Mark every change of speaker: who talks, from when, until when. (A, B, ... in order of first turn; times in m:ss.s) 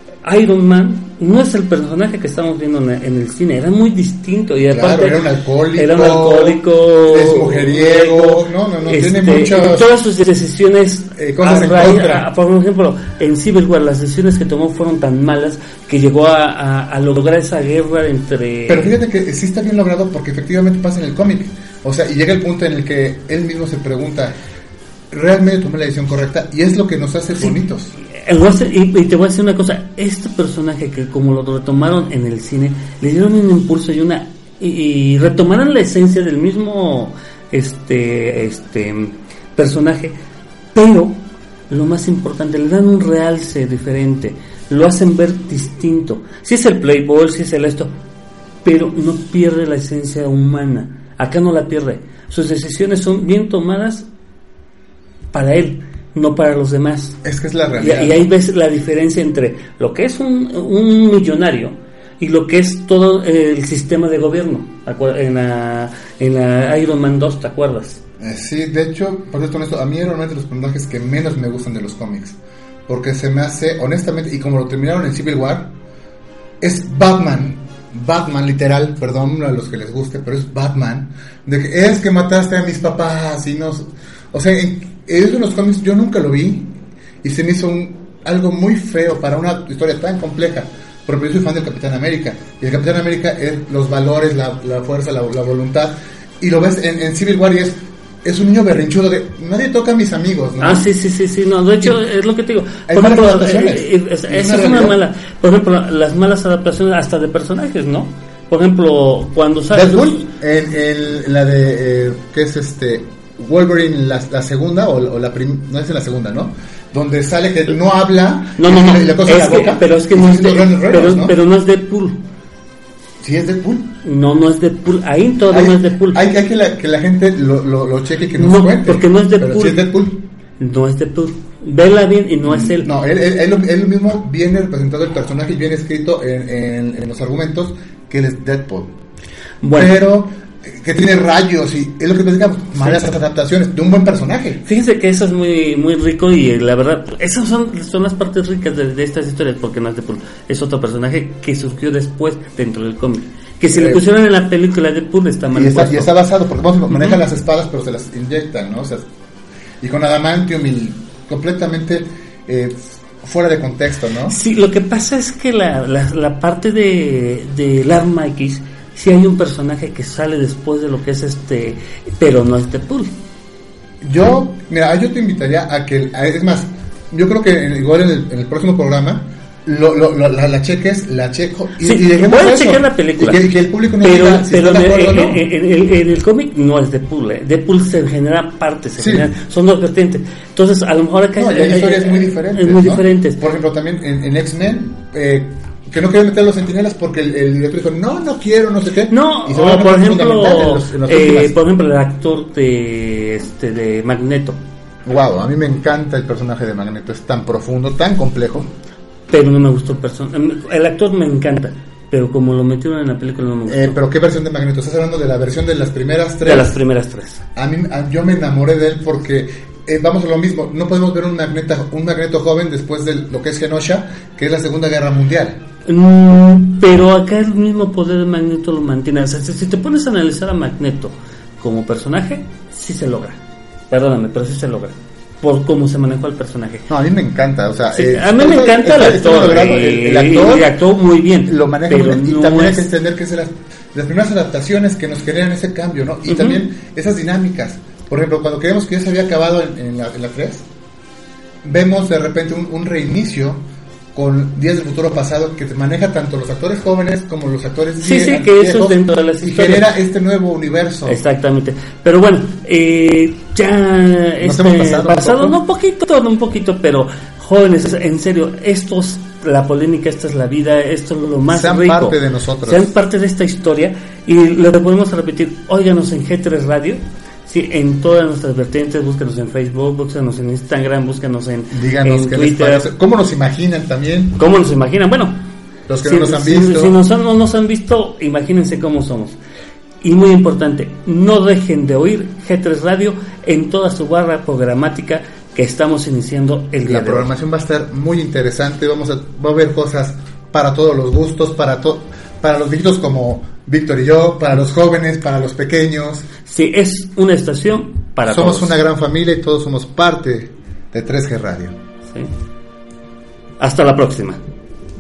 0:00.2-0:05.2 A
0:04.7-0:09.9 B
0:05.8-0:19.0 A
0:11.2-0:12.3 B
0:18.7-0:24.4 B
0:25.1-0:28.0 B
0:28.2-0:40.2 A
0:40.7-0:47.9 A
0:48.6-0:54.1 A
0:55.3-0:57.2 A
0:57.2-0:58.2 B
0:57.8-1:08.0 A
1:08.2-1:15.7 B
1:16.6-1:40.9 B
1:40.6-1:50.3 A
1:42.9-1:45.0 B
1:49.7-2:01.4 B
1:58.6-2:02.2 A
2:03.2-2:04.0 B
2:04.0-2:06.2 A
2:05.5-2:10.3 B
2:08.4-2:09.9 A
2:10.6-2:12.9 A
2:12.4-2:18.9 B
2:19.6-2:20.0 A
2:19.7-2:24.6 B
2:24.6-2:36.2 A
2:33.7-2:34.0 B
2:35.5-2:39.1 B
2:36.9-2:37.2 A
2:39.8-2:44.4 B
2:44.3-2:53.1 A
2:54.0-3:05.4 B
3:01.8-3:03.4 A
3:04.0-3:13.4 A
3:09.0-3:09.3 B
3:11.4-3:21.6 B
3:19.1-3:24.6 A
3:25.0-3:28.7 B
3:29.3-3:34.0 A
3:33.7-3:36.8 B
3:36.4-3:37.4 A
3:37.6-3:45.6 B
3:45.9-3:56.9 A
3:56.9-4:00.8 B
3:57.9-4:02.9 A
4:01.5-4:10.7 B
4:06.3-4:06.6 A
4:11.6-4:13.6 B
4:14.1-4:21.2 B
4:18.0-4:19.9 A
4:21.1-4:42.9 A
4:24.4-4:25.6 B
4:31.5-4:32.9 B
4:41.7-4:44.4 B
4:44.4-4:45.4 A
4:45.9-4:47.0 B
4:46.0-4:49.4 A
4:50.0-4:57.3 A
4:56.8-5:06.3 B
5:06.5-5:08.8 A
5:08.3-5:11.8 B
5:13.6-5:14.4 A